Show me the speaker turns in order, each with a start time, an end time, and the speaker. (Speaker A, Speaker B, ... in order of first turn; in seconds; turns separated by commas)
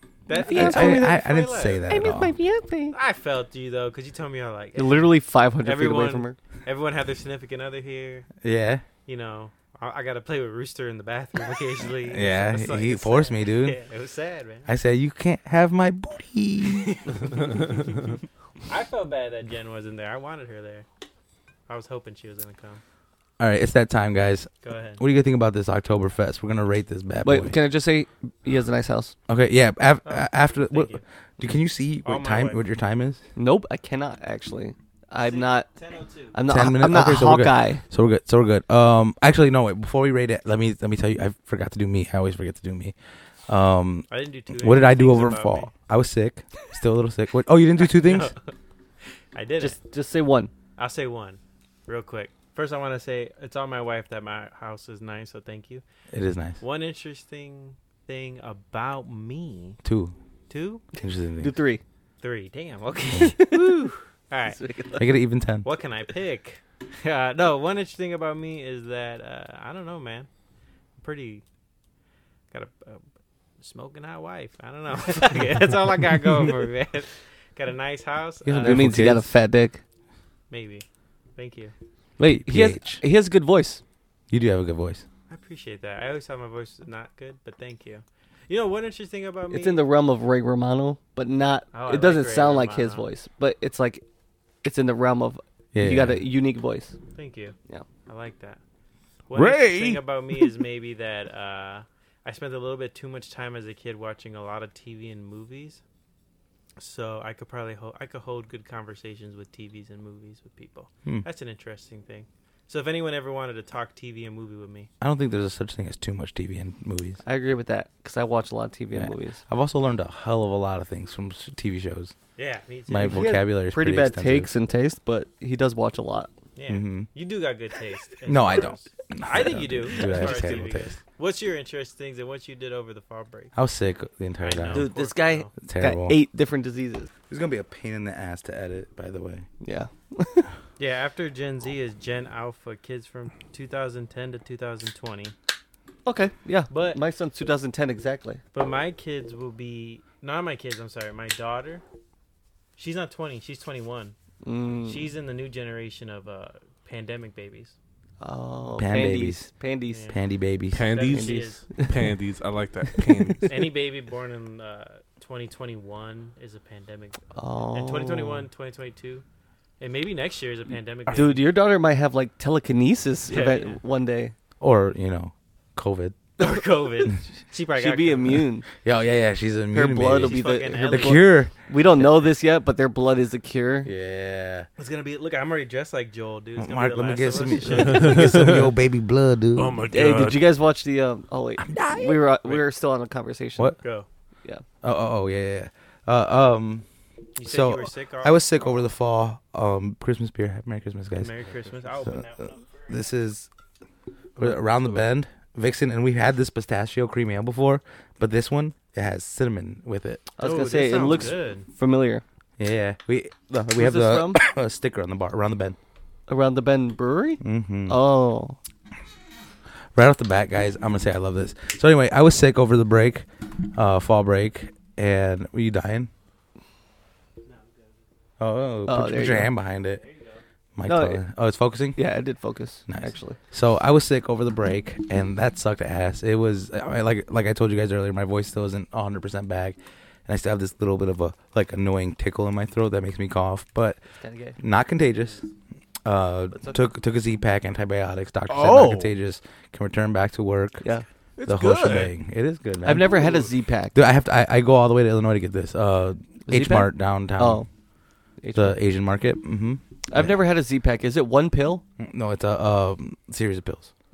Speaker A: 0.3-1.9, Speaker B: 0.3-1.2, Speaker C: 0.5-2.3, Speaker B: 1.9-3.0, Speaker A: 2.9-8.3, Speaker B: 4.8-6.4, Speaker C: 8.4-8.8, Speaker A: 9.1-14.7, Speaker C: 12.1-13.8, Speaker C: 14.7-17.3, Speaker A: 18.7-20.9, Speaker A: 21.7-22.8, Speaker C: 23.4-27.6, Speaker A: 24.6-25.0, Speaker B: 27.2-29.1, Speaker C: 29.3-33.2, Speaker A: 30.1-31.0, Speaker A: 32.0-32.6, Speaker B: 33.4-35.7, Speaker A: 35.2-36.3, Speaker B: 36.3-37.8, Speaker C: 36.5-43.0, Speaker C: 43.5-48.3, Speaker A: 44.1-45.7, Speaker A: 47.8-48.4, Speaker A: 49.3-49.8, Speaker B: 49.6-50.5, Speaker A: 50.8-55.8, Speaker C: 56.1-56.6, Speaker A: 56.6-59.8, Speaker C: 59.8-60.1, Speaker A: 60.5-60.8, Speaker C: 61.0-61.5, Speaker B: 61.0-61.8, Speaker A: 62.2-64.6, Speaker B: 63.3-63.8, Speaker B: 64.5-65.1, Speaker C: 65.0-65.7, Speaker A: 65.6-70.3, Speaker A: 71.0-71.4, Speaker A: 72.5-73.0, Speaker A: 73.6-78.9, Speaker C: 78.4-79.3, Speaker B: 78.6-79.8, Speaker A: 80.5-80.8, Speaker A: 81.4-81.7, Speaker B: 82.2-83.8, Speaker C: 82.2-83.0, Speaker C: 84.3-85.0, Speaker A: 85.3-89.8, Speaker B: 89.5-94.0, Speaker A: 91.7-93.0, Speaker B: 94.6-97.0, Speaker C: 95.7-96.3, Speaker A: 97.2-97.5, Speaker A: 98.1-98.6, Speaker A: 99.3-105.8, Speaker D: 99.3-100.5, Speaker A: 106.8-114.9, Speaker C: 115.0-117.2, Speaker B: 117.2-119.4, Speaker C: 118.9-122.2, Speaker A: 122.4-123.4, Speaker C: 122.9-124.5, Speaker B: 123.0-126.3, Speaker A: 126.6-133.6, Speaker C: 126.7-127.1, Speaker C: 128.3-131.0, Speaker B: 129.6-130.6, Speaker C: 133.6-134.9, Speaker A: 134.4-135.5, Speaker B: 134.7-137.1, Speaker C: 135.6-136.2, Speaker C: 137.3-139.5, Speaker B: 139.6-140.5, Speaker A: 140.8-145.3, Speaker B: 146.1-148.4, Speaker A: 146.7-147.0, Speaker A: 148.6-151.8, Speaker A: 152.8-154.2, Speaker B: 154.4-155.1, Speaker A: 154.8-157.8, Speaker B: 158.2-160.1, Speaker C: 158.8-159.5, Speaker C: 160.1-160.9, Speaker D: 160.7-163.5, Speaker A: 160.9-161.6, Speaker B: 161.1-162.1, Speaker B: 162.9-163.5, Speaker A: 163.4-169.2, Speaker B: 167.3-168.5, Speaker A: 169.8-171.4, Speaker B: 171.1-174.3, Speaker A: 173.3-173.8, Speaker C: 174.6-176.2, Speaker A: 176.4-178.5, Speaker B: 177.8-178.7, Speaker C: 178.8-181.5, Speaker B: 179.7-183.9, Speaker A: 180.2-181.3, Speaker C: 183.8-184.7, Speaker A: 184.8-188.6, Speaker C: 186.6-189.8, Speaker D: 187.8-188.7, Speaker D: 189.6-190.4, Speaker B: 189.9-193.8, Speaker C: 191.6-192.2, Speaker A: 193.8-194.1, Speaker C: 194.8-196.9, Speaker A: 197.4-198.6, Speaker C: 197.4-201.4, Speaker A: 201.2-202.6, Speaker C: 201.9-203.5, Speaker D: 204.4-205.0, Speaker C: 204.4-210.3, Speaker B: 210.4-212.2, Speaker A: 210.4-211.7, Speaker C: 212.6-215.8, Speaker B: 213.7-214.4, Speaker B: 216.3-218.6, Speaker C: 217.4-218.0, Speaker C: 219.9-226.1, Speaker C: 228.4-230.1, Speaker B: 228.9-229.5, Speaker C: 230.8-232.0, Speaker B: 230.8-231.2, Speaker B: 232.0-233.4, Speaker C: 232.9-244.0, Speaker B: 244.2-244.6, Speaker C: 244.6-245.4, Speaker C: 246.1-250.9, Speaker D: 248.5-249.2, Speaker D: 251.4-252.1, Speaker C: 251.5-253.2, Speaker B: 252.8-254.0, Speaker C: 253.9-257.7, Speaker B: 256.5-257.7, Speaker B: 258.4-258.8, Speaker C: 258.5-260.4, Speaker B: 260.1-261.8, Speaker C: 262.0-263.9